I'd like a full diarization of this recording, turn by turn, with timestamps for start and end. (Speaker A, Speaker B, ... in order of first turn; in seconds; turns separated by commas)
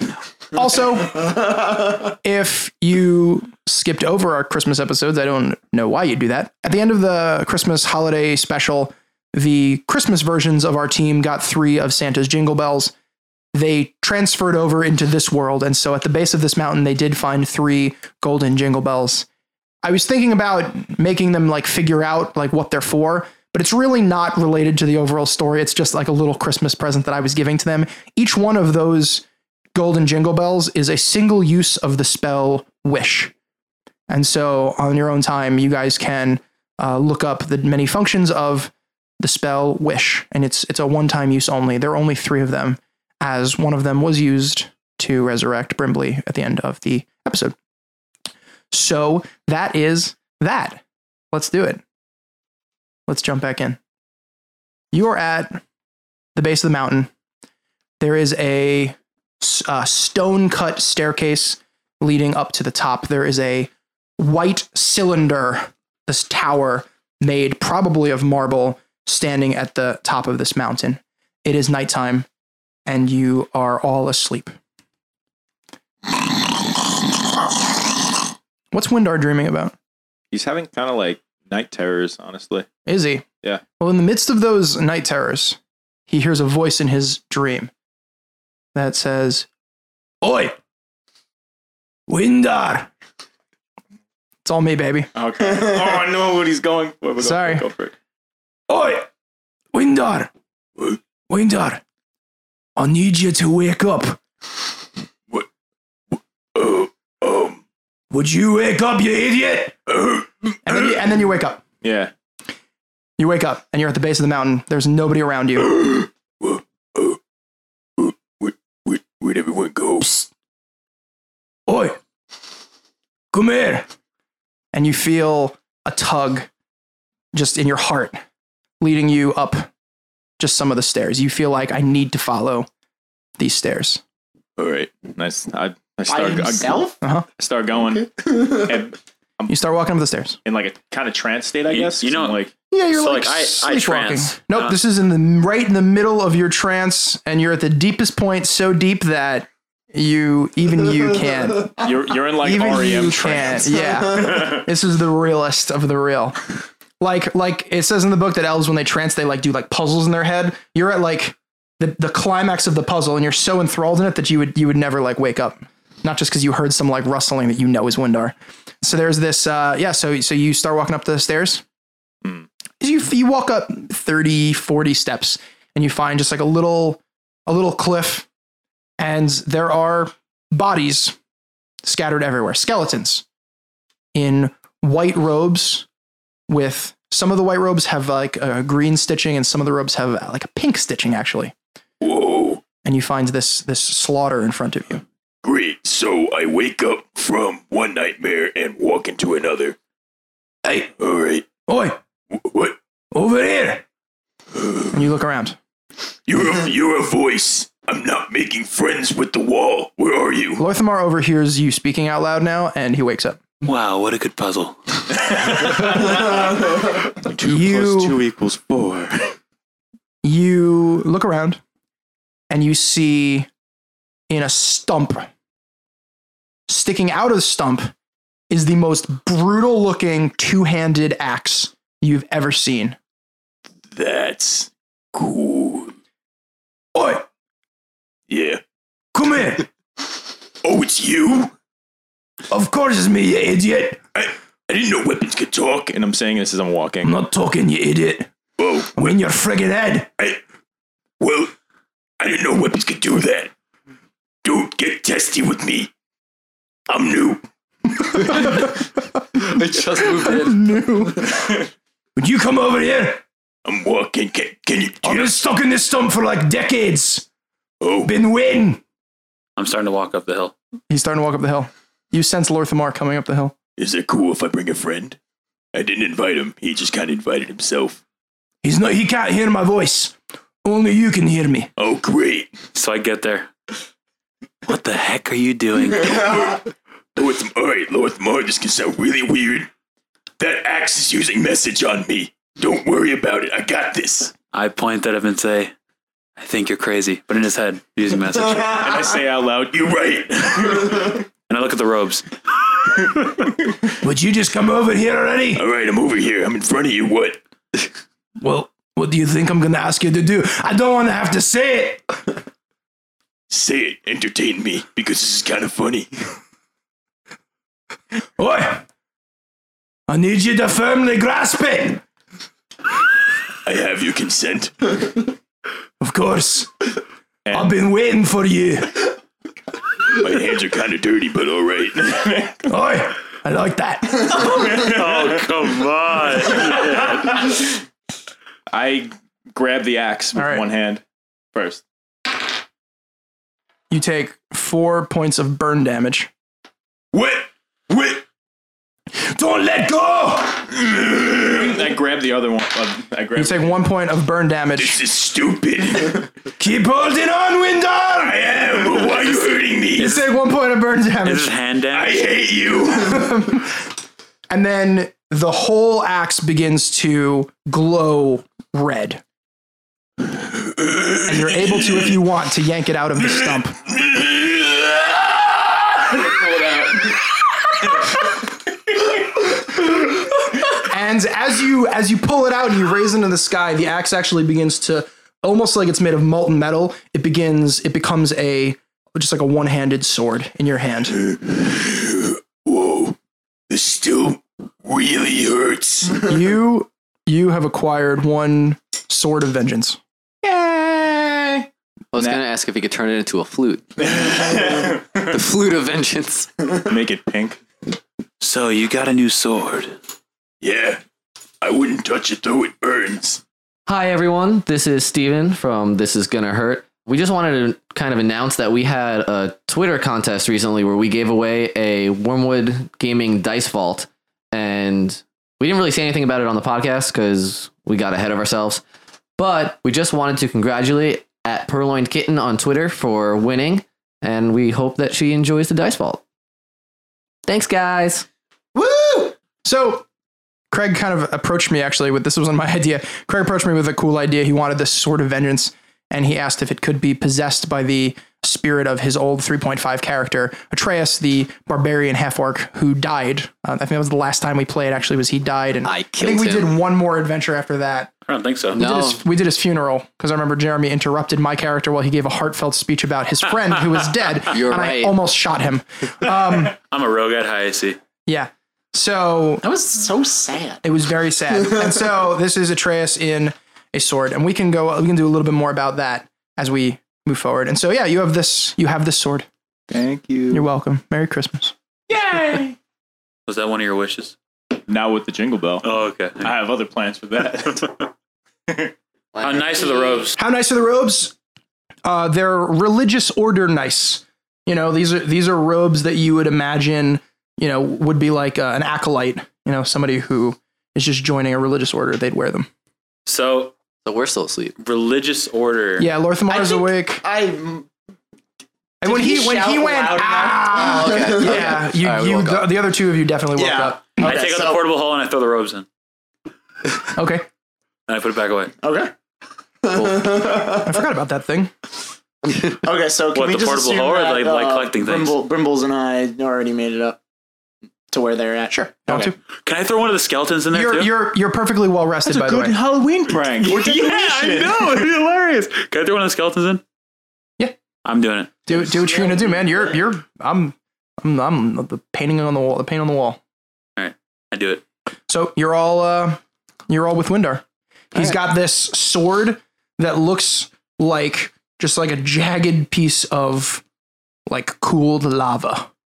Speaker A: 0.5-1.3, Speaker B: 1.0-2.1, Speaker A: 2.2-12.9, Speaker A: 13.5-19.3, Speaker A: 19.8-33.3, Speaker A: 34.1-47.5, Speaker A: 48.7-51.8, Speaker A: 53.1-53.8, Speaker A: 54.9-55.6, Speaker A: 56.4-57.1, Speaker A: 58.0-72.3, Speaker A: 72.9-74.6, Speaker A: 78.7-79.8, Speaker C: 80.3-82.7, Speaker A: 82.9-83.3, Speaker A: 83.8-87.7, Speaker A: 88.8-89.5, Speaker A: 90.2-90.6, Speaker A: 92.1-92.9, Speaker A: 94.4-95.1, Speaker C: 95.2-97.9, Speaker A: 97.2-97.7, Speaker A: 98.7-99.1, Speaker A: 99.7-100.3, Speaker A: 101.3-101.8, Speaker A: 102.8-104.2, Speaker D: 106.1-107.6, Speaker A: 108.1-109.8, Speaker D: 109.9-111.0, Speaker A: 110.6-111.6, Speaker C: 111.8-112.1, Speaker A: 113.2-115.8, Speaker D: 115.6-117.2, Speaker D: 118.0-120.1, Speaker A: 120.0-120.3, Speaker A: 121.7-122.0, Speaker A: 123.3-123.9, Speaker A: 124.7-126.5, Speaker A: 127.3-128.2, Speaker A: 128.8-129.7, Speaker A: 130.4-132.7, Speaker A: 133.4-134.0, Speaker D: 134.6-135.1, Speaker C: 135.0-139.5, Speaker B: 136.1-137.0, Speaker A: 137.0-137.3, Speaker A: 139.5-140.4, Speaker C: 140.4-142.5, Speaker E: 141.7-142.4, Speaker A: 142.7-151.8, Speaker E: 142.9-144.8, Speaker C: 151.8-154.7, Speaker A: 152.4-156.4, Speaker A: 157.0-171.6, Speaker A: 172.8-178.3, Speaker A: 179.0-181.2, Speaker A: 181.8-183.2, Speaker A: 184.1-185.9, Speaker A: 186.5-191.5, Speaker D: 192.0-192.7, Speaker A: 192.8-195.0, Speaker D: 195.4-199.8, Speaker A: 200.7-200.9, Speaker D: 201.0-201.6, Speaker A: 201.7-202.0, Speaker D: 202.3-202.8, Speaker A: 203.1-203.8, Speaker D: 204.6-204.8, Speaker A: 204.9-205.6, Speaker D: 206.3-210.7, Speaker A: 210.6-213.5, Speaker E: 213.6-216.3, Speaker D: 217.4-217.6, Speaker A: 217.4-218.2, Speaker D: 218.3-219.3, Speaker A: 220.2-221.6, Speaker A: 222.5-223.5, Speaker A: 224.3-225.3, Speaker A: 226.7-227.9, Speaker A: 228.5-233.0, Speaker D: 233.9-235.9, Speaker A: 236.9-237.3, Speaker D: 238.3-238.6, Speaker A: 239.1-239.7, Speaker D: 240.6-241.5, Speaker A: 242.5-244.0, Speaker D: 244.2-246.0, Speaker C: 245.9-247.1, Speaker A: 247.0-248.3, Speaker D: 248.6-249.1, Speaker A: 248.9-250.1, Speaker D: 251.2-251.5, Speaker D: 252.2-253.5, Speaker D: 254.4-255.9, Speaker D: 256.9-257.4, Speaker A: 258.3-258.7, Speaker F: 259.6-260.6, Speaker A: 260.1-261.5, Speaker A: 262.2-263.2, Speaker D: 263.6-265.4, Speaker A: 265.0-267.3, Speaker D: 267.8-268.1, Speaker A: 268.0-268.8, Speaker E: 269.6-270.5, Speaker A: 270.9-273.6, Speaker D: 273.8-275.2, Speaker D: 275.7-278.0, Speaker A: 278.6-281.7, Speaker D: 281.8-282.5, Speaker E: 282.8-283.5, Speaker E: 284.7-286.6, Speaker D: 286.2-286.6, Speaker D: 287.2-289.7, Speaker D: 290.4-294.3, Speaker E: 294.5-295.7, Speaker E: 296.4-298.9, Speaker C: 298.7-299.8, Speaker D: 298.7-299.0, Speaker D: 299.5-301.2, Speaker E: 301.5-302.3, Speaker A: 304.0-305.6, Speaker D: 305.6-307.4, Speaker A: 308.4-312.1, Speaker D: 313.5-316.1, Speaker A: 318.4-318.9, Speaker A: 320.1-322.0, Speaker D: 323.6-325.3, Speaker A: 326.0-326.7, Speaker C: 327.5-327.7, Speaker A: 327.5-329.1, Speaker D: 330.1-332.5, Speaker A: 332.6-334.4, Speaker C: 334.3-335.4, Speaker E: 334.6-337.5, Speaker C: 336.5-337.6, Speaker C: 338.7-341.0, Speaker A: 340.4-340.6, Speaker C: 341.5-341.8, Speaker A: 343.9-346.3, Speaker D: 347.1-348.2, Speaker A: 349.1-350.7, Speaker D: 350.7-351.8, Speaker C: 351.5-353.8, Speaker A: 353.4-355.0, Speaker D: 354.8-356.3, Speaker A: 356.6-359.1, Speaker D: 358.2-360.1, Speaker A: 360.0-361.5, Speaker E: 360.0-360.3, Speaker E: 361.2-362.3, Speaker D: 361.9-363.3, Speaker A: 363.0-363.9, Speaker A: 364.5-369.2, Speaker D: 370.2-372.1, Speaker A: 371.3-373.8, Speaker D: 373.9-375.5, Speaker A: 380.7-391.2, Speaker D: 391.1-393.2, Speaker D: 393.7-396.3, Speaker A: 396.2-400.0, Speaker F: 402.1-404.0, Speaker C: 404.1-405.3, Speaker F: 405.3-406.5, Speaker C: 406.9-407.6, Speaker E: 408.4-410.0, Speaker D: 410.6-411.0, Speaker D: 411.6-413.4, Speaker F: 413.9-428.8, Speaker F: 429.4-436.2, Speaker F: 437.5-438.3, Speaker B: 438.8-439.3, Speaker A: 439.6-440.1, Speaker A: 440.7-458.1, Speaker F: 455.9-456.8, Speaker E: 458.3-458.8, Speaker F: 458.7-459.2, Speaker A: 458.7-466.8, Speaker F: 464.5-465.2, Speaker E: 466.6-468.0, Speaker A: 468.3-469.6, Speaker B: 469.6-470.8, Speaker A: 470.8-479.5, Speaker C: 479.9-480.6, Speaker A: 480.5-481.7, Speaker C: 482.1-482.8, Speaker E: 483.5-484.4, Speaker C: 484.9-485.9, Speaker E: 485.8-486.5, Speaker C: 486.4-488.1, Speaker F: 489.4-490.3, Speaker E: 489.4-490.4, Speaker A: 490.4-491.3, Speaker A: 492.1-502.7, Speaker E: 503.3-503.7, Speaker F: 504.1-504.8, Speaker E: 504.8-506.1, Speaker A: 506.0-507.2, Speaker B: 506.5-507.9, Speaker A: 509.0-514.2, Speaker B: 509.0-511.8, Speaker F: 510.7-512.7, Speaker B: 513.6-514.8, Speaker E: 514.2-515.9, Speaker A: 517.1-517.5, Speaker E: 518.1-518.8, Speaker B: 518.8-519.1, Speaker B: 519.8-521.0, Speaker F: 520.0-520.2, Speaker A: 520.8-521.7, Speaker B: 522.8-527.2, Speaker E: 523.3-525.4, Speaker B: 528.1-529.3, Speaker A: 528.7-529.4, Speaker E: 529.6-531.1, Speaker A: 530.7-532.8, Speaker C: 532.3-535.1, Speaker E: 533.6-536.8, Speaker E: 538.0-538.6, Speaker A: 538.7-543.4, Speaker E: 544.0-544.8, Speaker A: 545.3-553.8, Speaker A: 554.5-555.9